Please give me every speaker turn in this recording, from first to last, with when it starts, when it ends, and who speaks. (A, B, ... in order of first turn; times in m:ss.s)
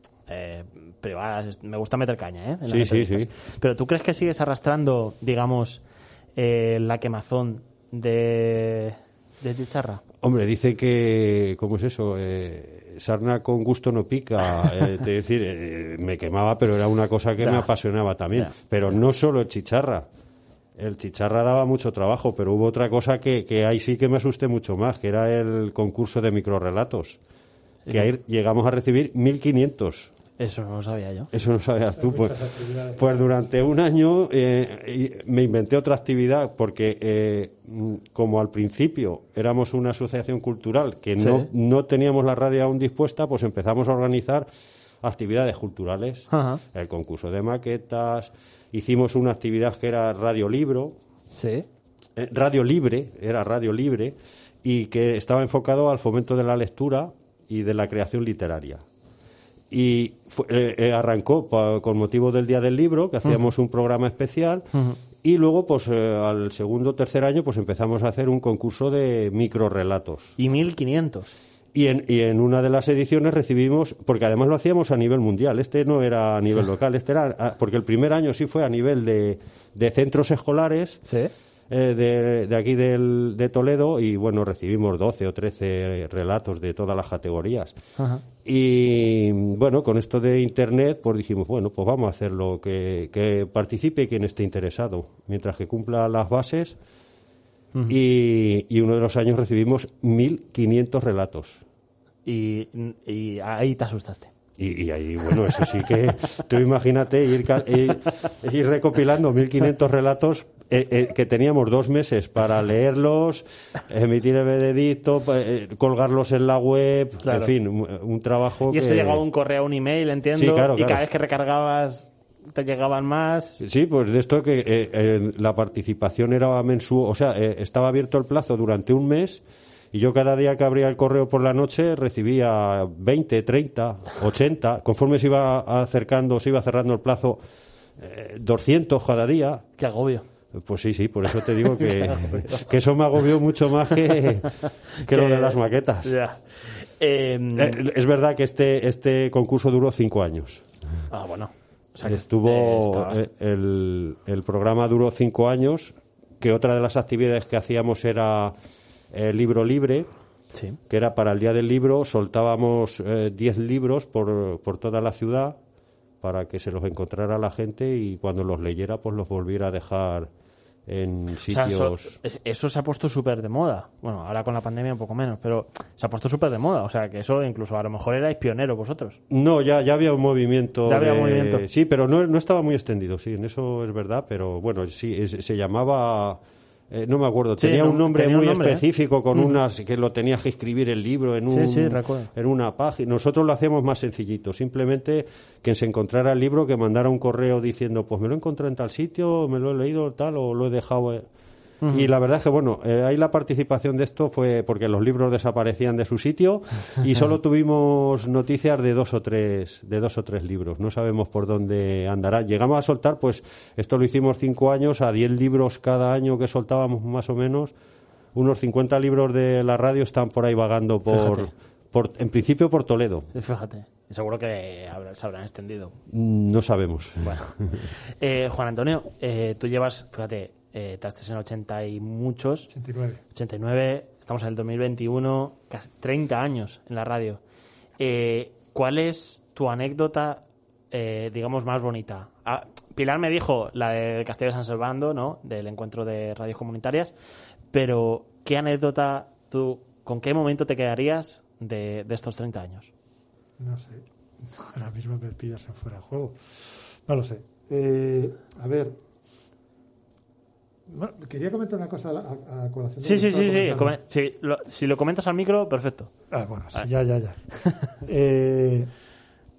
0:00.3-0:05.8 A
0:02.7-0:03.3 B
0:06.4-0:10.0 A
0:10.2-0:20.1 B
0:17.4-0:17.7 A
0:20.8-0:27.2 B
0:27.9-0:30.1 B
0:30.4-0:31.3 A
0:31.3-0:32.4 B
0:32.0-0:33.3 C
0:33.0-0:44.5 B
0:41.2-0:41.5 A
0:45.0-0:51.0 B
0:46.3-0:46.6 A
0:51.4-0:51.7 A
0:52.2-0:58.8 B
0:59.7-1:04.7 B
1:05.2-1:10.4 B
1:10.4-1:11.3 A
1:11.7-1:21.0 B
1:21.1-1:21.3 A
1:21.7-1:27.8 B
1:28.0-1:28.2 A
1:28.4-1:36.8 B
1:37.9-1:41.6 B
1:42.3-1:44.3 A
1:44.6-1:59.2 B
1:57.2-1:57.5 A
1:58.7-2:03.6 A
2:00.4-2:01.0 B
2:03.6-2:17.4 B
2:18.0-2:19.6 B
2:19.8-2:20.2 A
2:20.6-2:26.1 B
2:21.8-2:22.6 A
2:25.1-2:27.8 A
2:27.6-2:30.6 B
2:31.1-2:33.2 A
2:32.0-2:38.6 B
2:39.1-2:40.1 B
2:40.5-2:40.8 A
2:40.9-2:45.6 B
2:46.2-2:50.3 B
2:50.9-2:52.2 B
2:51.5-2:59.2 A
2:59.3-3:06.4 B
3:00.9-3:01.7 A
3:06.9-3:21.3 B
3:07.6-3:08.8 A
3:11.5-3:12.3 A
3:21.8-3:22.1 A
3:21.9-3:37.7 B
3:38.4-3:43.3 B
3:41.1-3:41.5 A
3:43.3-3:46.0 A
3:46.1-3:47.9 B
3:47.2-3:47.5 A
3:48.2-3:52.7 A
3:52.7-3:53.2 C
3:53.4-3:57.4 A
3:58.0-4:07.1 A
4:07.7-4:12.9 A
4:13.6-4:16.4 C
4:17.1-4:19.0 C
4:20.9-4:24.0 C
4:23.0-4:26.1 A
4:26.3-4:27.4 C
4:27.6-4:27.9 A
4:28.0-4:28.9 C